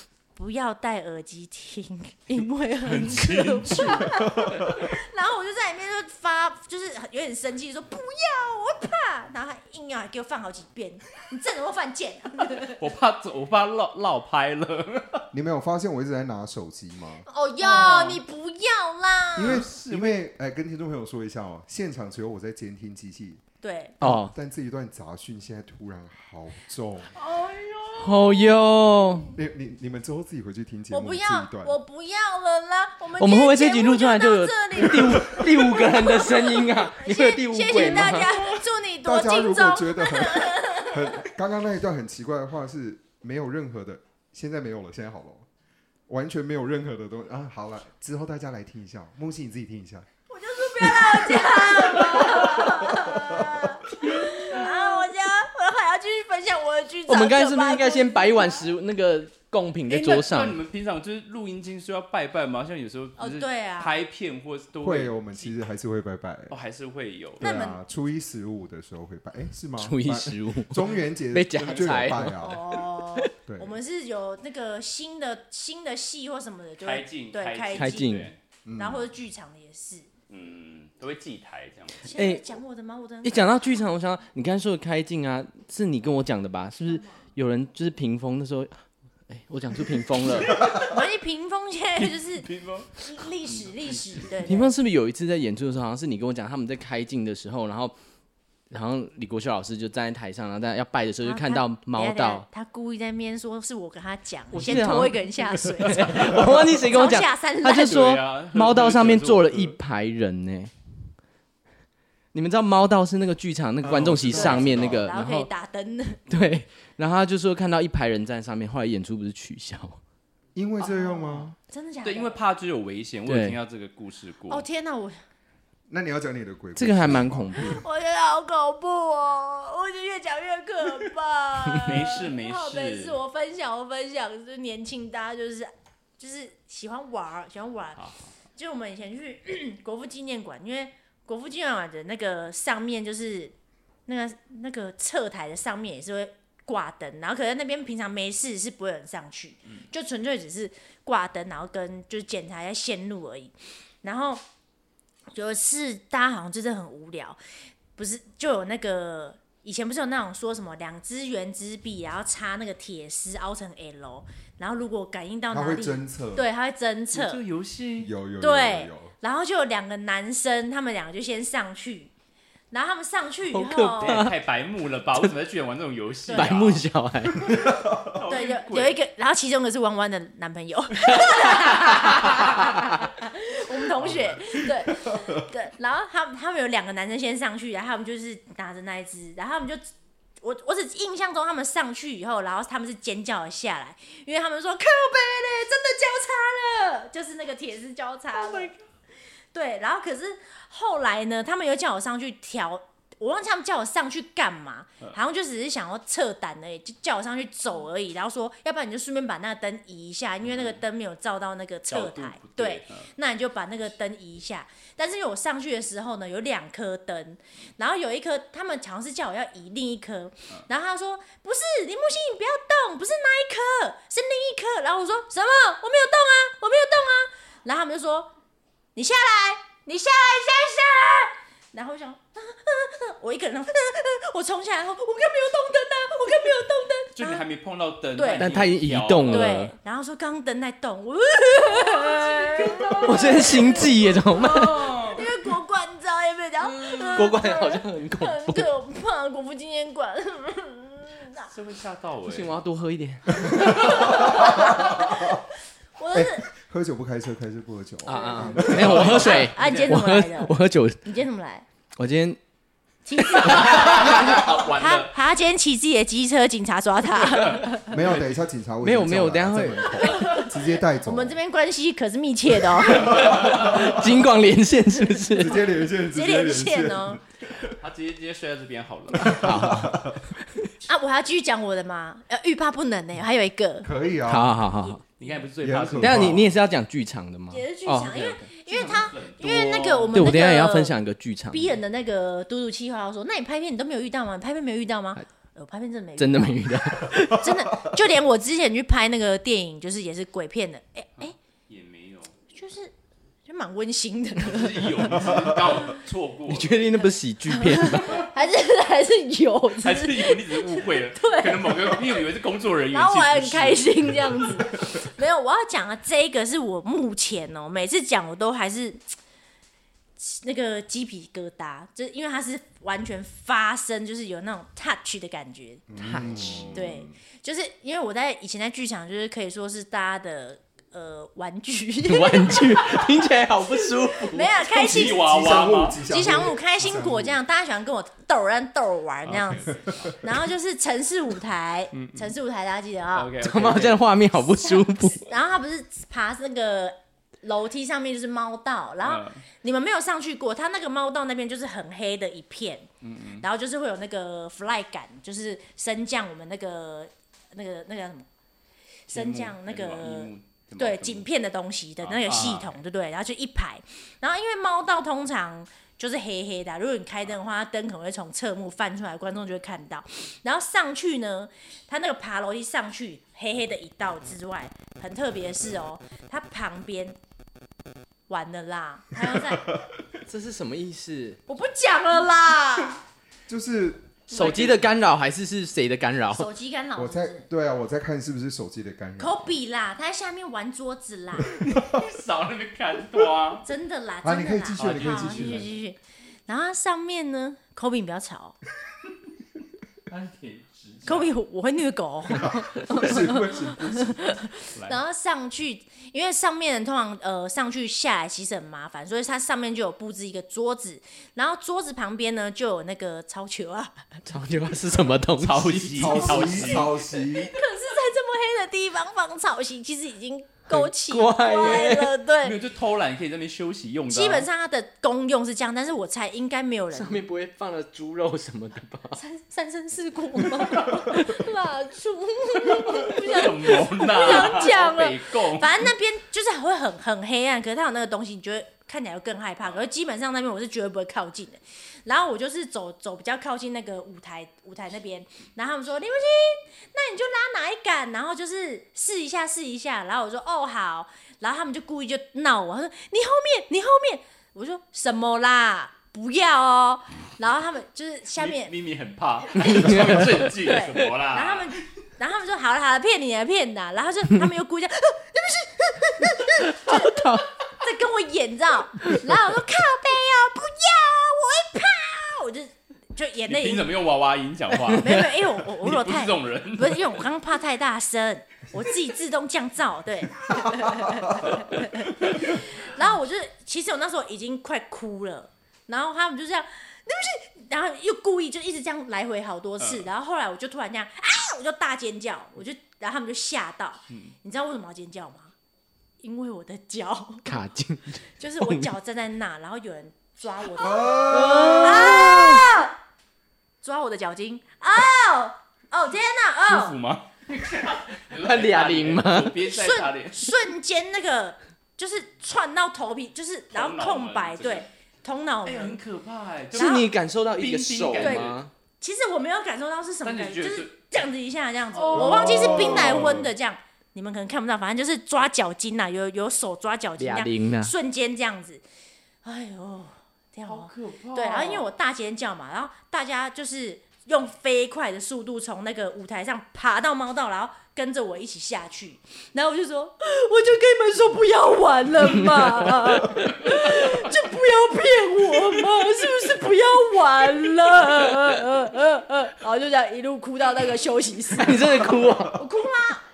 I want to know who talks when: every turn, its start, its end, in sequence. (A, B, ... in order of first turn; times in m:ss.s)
0:00.3-0:12.8 A
0:02.8-0:04.7 B
0:04.1-0:04.8 C
0:12.8-0:15.3 B
0:15.3-0:17.3 C
0:17.3-0:19.7 A
0:17.6-0:18.2 B
0:19.3-0:23.4 C
0:19.4-0:20.2 B
0:23.6-0:24.0 A
0:24.0-0:27.1 C
0:24.0-0:24.3 D
0:27.1-0:29.2 A
0:28.0-0:29.3 D
0:29.3-0:31.8 C
0:30.9-0:41.2 A
0:33.2-0:38.6 D
0:39.0-0:45.4 C
0:46.1-0:50.0 C
0:50.3-0:58.7 A
0:52.1-0:53.7 C
0:57.1-1:00.6 D
0:59.9-1:05.7 B
1:03.2-1:03.9 A
1:04.8-1:06.5 C
1:06.5-1:07.6 B
1:07.4-1:12.6 C
1:07.4-1:07.8 A
1:09.8-1:13.3 D
1:12.2-1:18.2 A
1:13.4-1:13.7 C
1:16.8-1:18.4 B
1:17.7-1:18.3 D
1:18.6-1:19.1 C
1:18.8-1:20.1 A
1:20.3-1:22.1 B
1:22.0-1:23.6 A
1:22.1-1:22.4 D
1:23.2-1:30.6 D
1:26.9-1:27.2 A
1:30.5-1:30.7 B
1:30.6-1:34.7 A
1:32.4-1:34.3 B
1:34.4-1:37.9 D
1:38.7-1:42.4 D
1:41.2-1:48.0 A
1:44.5-1:50.7 D
1:47.7-1:49.8 B
1:52.3-1:55.5 D
1:53.8-1:55.1 C
1:54.3-1:56.2 A
1:56.3-2:00.0 D
2:00.5-2:01.5 C
2:00.8-2:02.4 A
2:02.0-2:04.6 B
2:03.2-2:03.6 D
2:04.5-2:05.2 A
2:05.9-2:07.8 C
2:06.8-2:07.8 D
2:07.6-2:18.0 A
2:11.8-2:13.2 B
2:18.0-2:18.2 B
2:18.6-2:23.5 A
2:24.1-2:34.4 A
2:35.3-2:37.4 A
2:38.0-2:47.4 A
2:45.5-2:46.4 C
2:47.1-2:48.1 B
2:48.0-2:49.1 C
2:48.4-2:52.1 A
2:52.7-2:54.3 A
2:53.5-2:54.3 D
2:54.0-2:56.8 B
2:56.3-2:56.6 A
2:56.3-2:57.7 D
2:57.4-2:58.2 C
2:58.0-2:59.0 B
2:58.3-3:09.8 A
3:10.4-3:18.7 A
3:18.3-3:18.8 B
3:19.5-3:48.3 A
3:30.4-3:30.8 B
3:31.9-3:33.1 B
3:49.0-3:57.4 A
3:57.2-3:59.6 B
3:58.2-3:58.5 A
3:58.4-3:59.7 D
3:59.3-4:11.5 A
4:01.8-4:05.2 B
4:03.0-4:05.0 D
4:06.6-4:07.3 B
4:07.1-4:08.7 D
4:11.5-4:12.5 B
4:12.2-4:14.3 D
4:13.4-4:15.4 C
4:13.6-4:15.4 A
4:16.0-4:16.5 A
4:16.1-4:19.4 C
4:18.0-4:21.0 D
4:18.1-4:21.6 A
4:18.6-4:20.0 B
4:22.0-4:22.4 D
4:23.0-4:28.0 A
4:23.2-4:24.3 D
4:23.4-4:25.2 B
4:27.5-4:28.2 B
4:27.8-4:31.4 C
4:28.8-4:30.1 D
4:30.0-4:33.4 A
4:32.8-4:34.2 C
4:33.0-4:35.6 D
4:35.4-4:37.7 C
4:35.5-4:37.2 A
4:37.8-4:39.7 B
4:39.2-4:40.3 C
4:39.2-4:40.7 D
4:40.8-4:43.9 A
4:43.8-4:44.6 C
4:44.2-4:45.0 D
4:44.8-4:45.3 A
4:45.2-4:46.4 B
4:45.6-4:46.5 C
4:46.0-4:48.4 D
4:47.5-4:51.0 A
4:48.0-4:50.2 B
4:50.1-4:51.8 D
4:51.5-5:01.4 A
4:56.2-4:57.6 D
5:01.2-5:02.3 B
5:02.5-5:02.9 A
5:03.4-5:05.3 A
5:04.4-5:06.9 B
5:06.5-5:08.2 D
5:07.5-5:12.2 A
5:09.8-5:14.4 B
5:12.9-5:19.0 A
5:20.2-5:33.0 A
5:25.9-5:27.1 C
5:26.0-5:26.8 D
5:32.0-5:34.6 D
5:34.3-5:35.3 A
5:34.6-5:37.4 C
5:34.7-5:36.0 B
5:36.0-5:43.3 A
5:39.2-5:40.1 B
5:39.8-5:40.1 C
5:42.0-5:42.3 B
5:43.1-5:44.0 B
5:43.4-5:45.3 D
5:44.7-5:52.9 A
5:49.0-5:49.4 B
5:53.0-5:53.4 B
5:53.4-5:58.3 A
5:59.1-6:17.2 A
5:59.1-6:01.2 B
6:02.0-6:02.8 B
6:18.3-6:19.7 A
6:20.3-6:21.4 D
6:21.5-6:23.0 A
6:23.5-6:24.2 C
6:24.3-6:24.9 B
6:24.3-6:26.5 D
6:26.3-6:27.4 A
6:27.0-6:29.6 C
6:29.2-6:31.6 A
6:31.6-6:33.6 B
6:31.6-6:32.0 C
6:33.6-6:38.6 A
6:34.2-6:35.7 C
6:34.7-6:35.7 B
6:40.1-6:41.3 B
6:41.0-6:54.2 A
6:42.3-6:44.4 C
6:54.2-6:56.8 D
6:55.4-6:57.0 B
6:56.0-6:57.6 C
6:56.8-7:02.6 A
7:00.7-7:02.1 D
7:01.6-7:01.9 B
7:02.4-7:04.5 B
7:04.1-7:07.2 A
7:06.9-7:09.2 D
7:09.1-7:38.7 A
7:12.7-7:15.8 B
7:38.4-7:41.7 B
7:39.6-7:40.5 D
7:40.4-7:53.9 A
7:46.5-7:47.5 D
7:53.5-7:57.2 B
7:54.7-7:55.2 D
7:54.9-8:15.5 A
8:09.8-8:10.1 B
8:16.2-8:17.6 A
8:17.4-8:18.9 D
8:18.4-8:23.0 A
8:20.8-8:22.3 C
8:21.2-8:22.7 D
8:23.8-8:27.0 A
8:26.6-8:30.5 B
8:28.3-8:29.6 D
8:29.6-8:36.0 A
8:33.7-8:34.8 B
8:35.6-8:38.6 B
8:36.7-8:38.7 D
8:36.7-8:37.1 A
8:38.2-8:48.8 A
8:40.2-8:40.9 B
8:41.9-8:43.4 B
8:42.1-8:43.5 C
8:47.2-8:47.9 D
8:49.4-9:13.2 A
8:50.7-8:51.9 B
9:02.4-9:03.5 D
9:11.5-9:12.6 D